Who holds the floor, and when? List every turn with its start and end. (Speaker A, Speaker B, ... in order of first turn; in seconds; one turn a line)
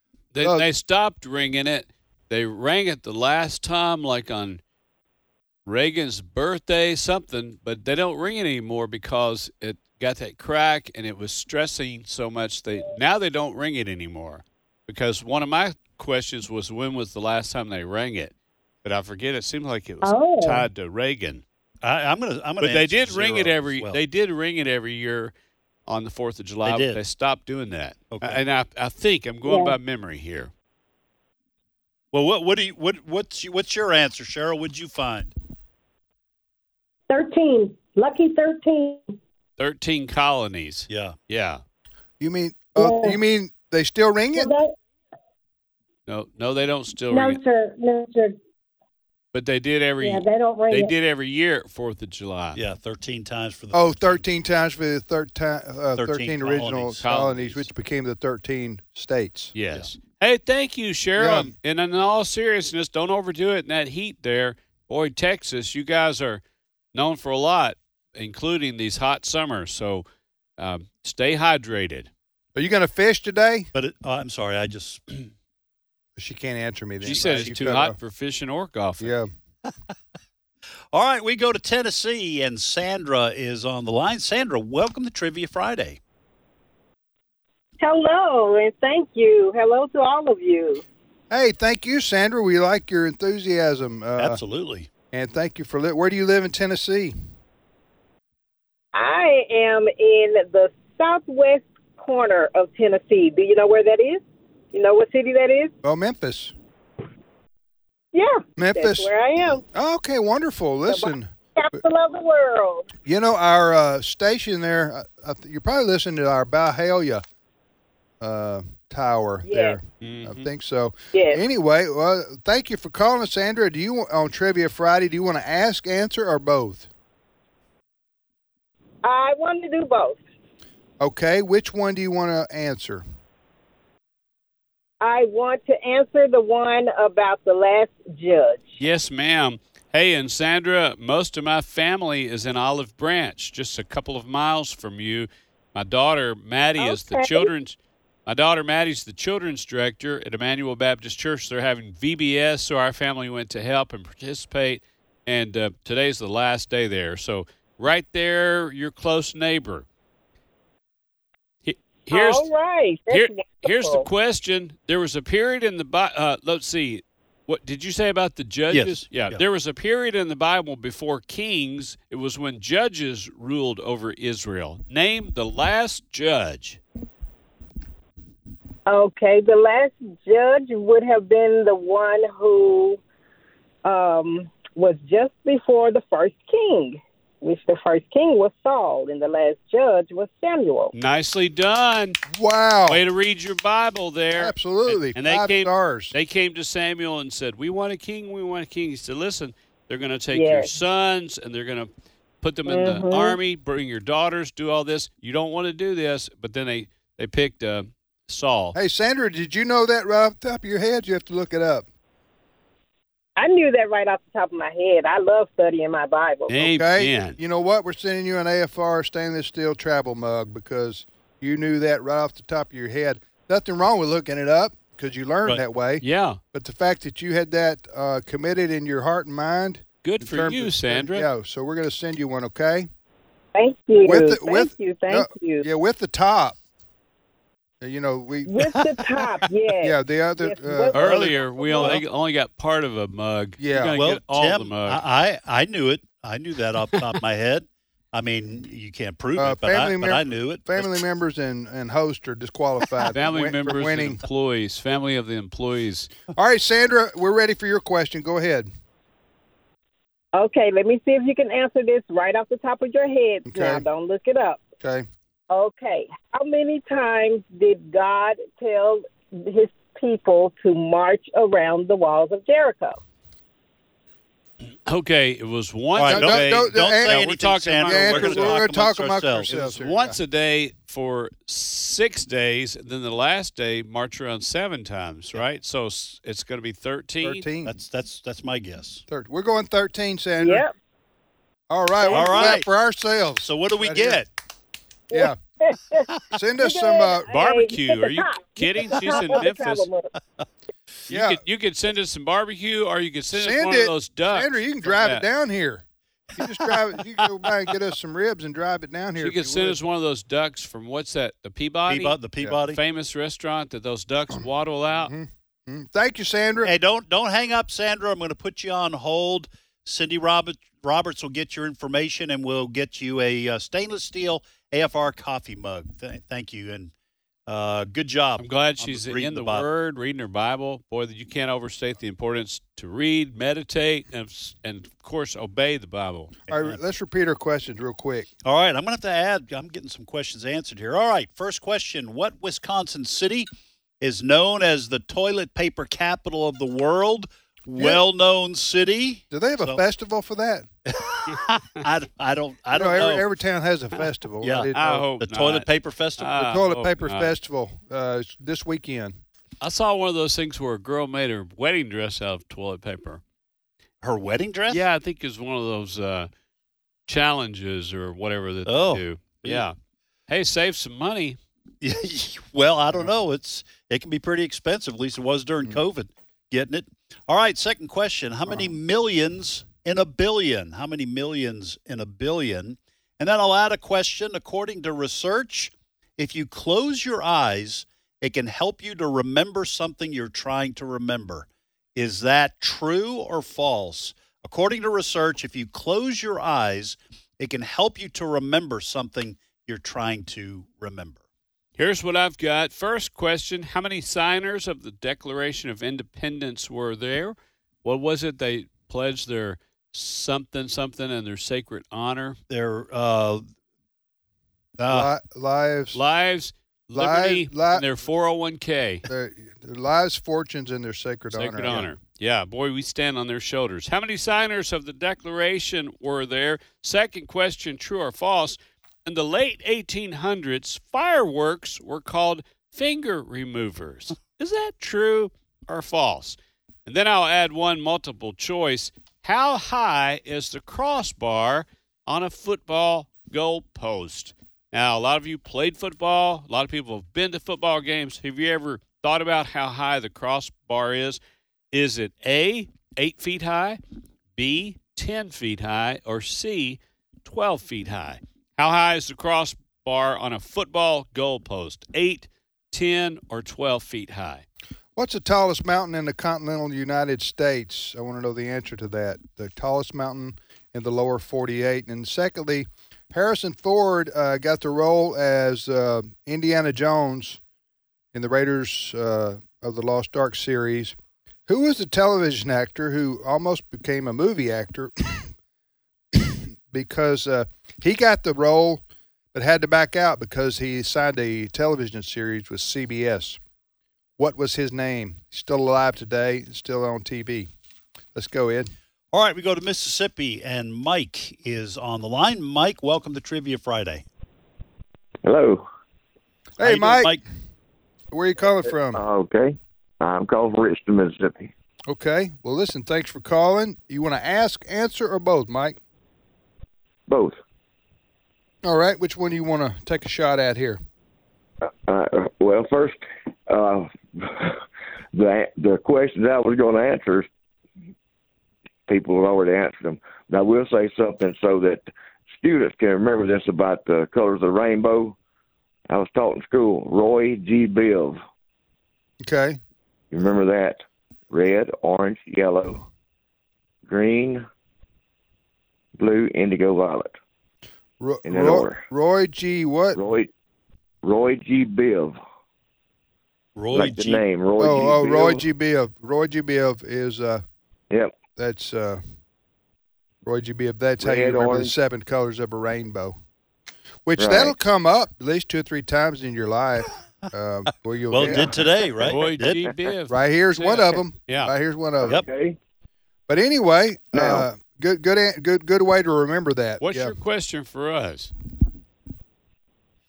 Speaker A: 0.3-4.6
Speaker B: 0.4-0.7
Speaker A: 5.7-18.3
Speaker A: 18.8-21.4
Speaker C: 20.0-20.7
Speaker D: 21.8-24.0
Speaker A: 22.6-25.3
Speaker A: 25.9-30.5
Speaker D: 26.6-27.0
Speaker D: 28.1-28.4
Speaker C: 29.4-29.8
Speaker D: 32.1-35.3
Speaker C: 37.1-39.1
Speaker A: 39.6-41.6
Speaker D: 40.9-41.1
Speaker B: 42.2-44.5
Speaker C: 42.8-43.2
Speaker C: 44.3-44.7
Speaker A: 46.1-47.4
Speaker C: 47.1-48.4
Speaker A: 49.3-52.6
Speaker C: 50.0-50.9
Speaker D: 52.5-54.2
Speaker B: 53.7-59.5
Speaker D: 56.0-57.0
Speaker A: 57.0-57.6
Speaker A: 59.5-66.4
Speaker B: 61.2-61.5
Speaker A: 66.9-70.0
Speaker A: 70.6-72.1
Speaker B: 72.5-73.7
Speaker D: 73.7-75.3
Speaker B: 76.2-78.0
Speaker A: 77.0-79.1
Speaker D: 77.0-77.5
Speaker B: 79.0-79.3
Speaker D: 80.9-86.0
Speaker E: 87.8-90.8
Speaker B: 91.3-94.4
Speaker D: 94.2-94.9
Speaker B: 95.1-97.1
Speaker E: 98.9-105.7
Speaker B: 105.8-106.5
Speaker E: 108.1-109.6
Speaker B: 108.6-109.1
Speaker B: 109.6-111.3
Speaker E: 110.9-112.9
Speaker B: 113.0-117.2
Speaker B: 118.2-126.9
Speaker E: 119.4-119.8
Speaker A: 120.0-120.5
Speaker E: 121.1-121.4
Speaker E: 129.0-130.2
Speaker B: 131.0-133.0
Speaker E: 135.0-138.7
Speaker A: 138.8-159.8
Speaker E: 146.8-147.5
Speaker A: 161.6-162.5
Speaker E: 162.1-164.1
Speaker A: 163.1-176.8
Speaker D: 168.7-169.4
Speaker E: 178.9-183.0
Speaker E: 183.8-190.9
Speaker A: 190.9-192.2
Speaker B: 192.3-193.0
Speaker A: 192.9-201.9
Speaker B: 194.3-196.1
Speaker E: 200.3-200.7
Speaker A: 202.4-208.8
Speaker E: 202.7-203.4
Speaker B: 208.7-211.8
Speaker E: 213.4-216.6
Speaker A: 216.5-217.4
Speaker B: 216.6-232.9
Speaker A: 226.0-226.4
Speaker A: 230.0-231.3
Speaker E: 233.5-235.7
Speaker B: 234.0-236.6
Speaker B: 237.8-238.5
Speaker E: 238.4-241.9
Speaker D: 238.6-239.5
Speaker B: 239.8-242.0
Speaker A: 240.9-245.0
Speaker B: 243.6-244.0
Speaker D: 243.9-250.9
Speaker B: 249.3-254.2
Speaker A: 253.1-256.1
Speaker B: 256.3-258.7
Speaker E: 260.3-264.6
Speaker B: 263.4-263.8
Speaker B: 264.8-265.1
Speaker E: 265.5-273.0
Speaker A: 274.9-278.6
Speaker D: 275.9-279.5
Speaker B: 276.0-280.2
Speaker A: 279.5-287.4
Speaker B: 287.2-287.7
Speaker D: 287.6-289.0
Speaker B: 289.1-290.6
Speaker E: 290.4-290.7
Speaker B: 291.7-294.2
Speaker D: 292.1-292.7
Speaker D: 293.4-294.3
Speaker B: 295.1-295.4
Speaker E: 295.1-296.1
Speaker B: 296.3-297.3
Speaker E: 296.6-300.1
Speaker A: 297.3-299.9
Speaker D: 299.1-299.4
Speaker A: 301.1-305.2
Speaker B: 301.1-301.4
Speaker B: 303.3-305.8
Speaker B: 306.4-309.8
Speaker A: 309.2-315.1
Speaker D: 311.9-312.8
Speaker B: 314.3-316.7
Speaker D: 316.6-326.9
Speaker D: 327.5-329.6
Speaker A: 328.4-336.3
Speaker B: 336.5-338.3
Speaker D: 336.5-336.8
Speaker D: 338.4-343.5
Speaker D: 344.0-349.8
Speaker B: 347.8-348.0
Speaker B: 349.3-350.6
Speaker D: 350.9-353.2
Speaker B: 352.7-355.1
Speaker D: 354.4-356.3
Speaker A: 354.7-355.7
Speaker A: 356.2-357.3
Speaker B: 356.3-359.1
Speaker A: 359.6-363.2
Speaker D: 364.0-364.8
Speaker A: 364.7-366.3
Speaker A: 367.1-369.7
Speaker D: 368.7-369.6
Speaker A: 370.3-371.4
Speaker D: 371.8-401.2
Speaker A: 401.8-412.4
Speaker D: 412.5-413.4
Speaker D: 414.8-415.1
Speaker B: 414.9-416.0
Speaker A: 415.9-419.1
Speaker B: 416.9-417.9
Speaker B: 419.1-421.9
Speaker A: 421.3-451.2
Speaker A: 451.7-453.8
Speaker A: 454.4-464.4
Speaker B: 464.9-477.4
Speaker B: 478.1-480.9
Speaker B: 481.5-485.3
Speaker B: 486.1-488.8
Speaker B: 489.3-493.4
Speaker B: 494.2-497.5
Speaker B: 498.1-498.7
Speaker D: 499.1-504.0
Speaker F: 505.2-505.6
Speaker B: 506.6-507.2
Speaker D: 506.6-507.2
Speaker B: 508.1-509.0
Speaker F: 508.9-511.5
Speaker B: 511.9-515.8
Speaker F: 517.1-517.4
Speaker B: 518.6-520.8
Speaker F: 521.7-524.6
Speaker F: 525.1-527.3
Speaker F: 528.9-535.1
Speaker F: 535.9-538.2
Speaker B: 539.2-539.6
Speaker F: 540.1-542.9
Speaker F: 543.9-544.4
Speaker F: 546.0-547.1
Speaker B: 548.0-550.0
Speaker F: 548.2-548.8
Speaker F: 549.9-550.3
Speaker F: 551.0-552.2
Speaker D: 553.5-554.2
Speaker F: 553.7-555.5
Speaker B: 554.6-557.4
Speaker F: 557.9-558.1
Speaker B: 558.4-559.0
Speaker B: 560.2-563.1
Speaker F: 561.0-561.7
Speaker B: 564.0-568.6
Speaker F: 564.2-564.5
Speaker D: 568.1-569.6
Speaker A: 569.0-571.5
Speaker F: 569.2-569.8
Speaker B: 570.1-572.2
Speaker F: 572.0-572.6
Speaker B: 573.3-577.1
Speaker F: 574.1-574.5
Speaker A: 576.8-578.3